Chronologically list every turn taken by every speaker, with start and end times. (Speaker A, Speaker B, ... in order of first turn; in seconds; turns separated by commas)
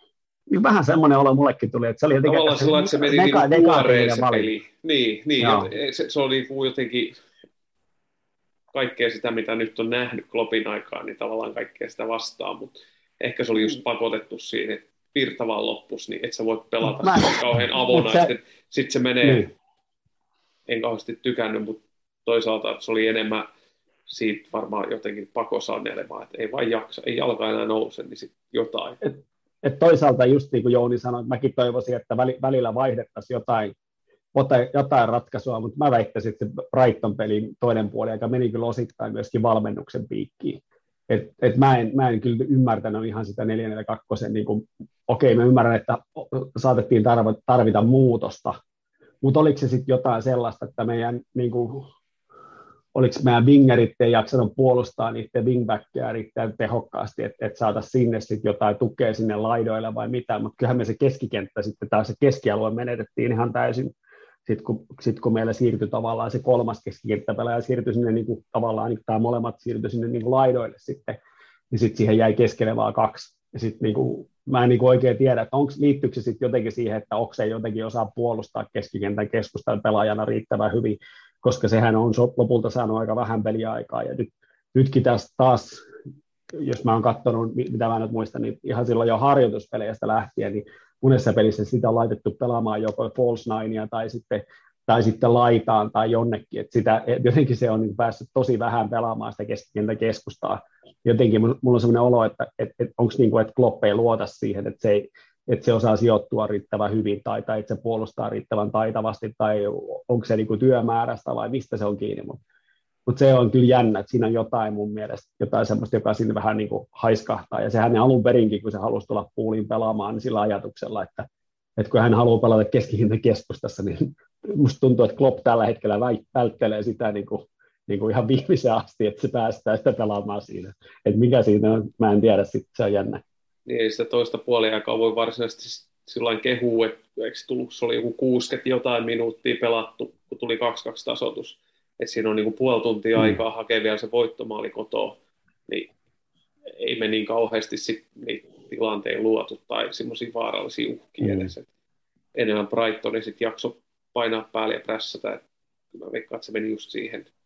Speaker A: 0.5-4.5, Speaker B: 2.2-7.2, Speaker A: 5.4-5.7, Speaker B: 8.7-19.4, Speaker A: 16.8-18.3, Speaker A: 19.2-19.5, Speaker B: 20.7-23.5, Speaker B: 24.1-29.0, Speaker A: 29.0-33.7, Speaker A: 34.3-48.6, Speaker A: 49.2-51.9, Speaker A: 52.9-63.9, Speaker A: 64.5-71.2, Speaker A: 71.7-85.8, Speaker A: 86.5-112.4, Speaker A: 113.1-121.2, Speaker A: 121.8-133.2, Speaker B: 133.7-145.9, Speaker B: 146.8-151.6, Speaker A: 151.2-151.5, Speaker B: 152.3-155.4, Speaker B: 155.9-157.3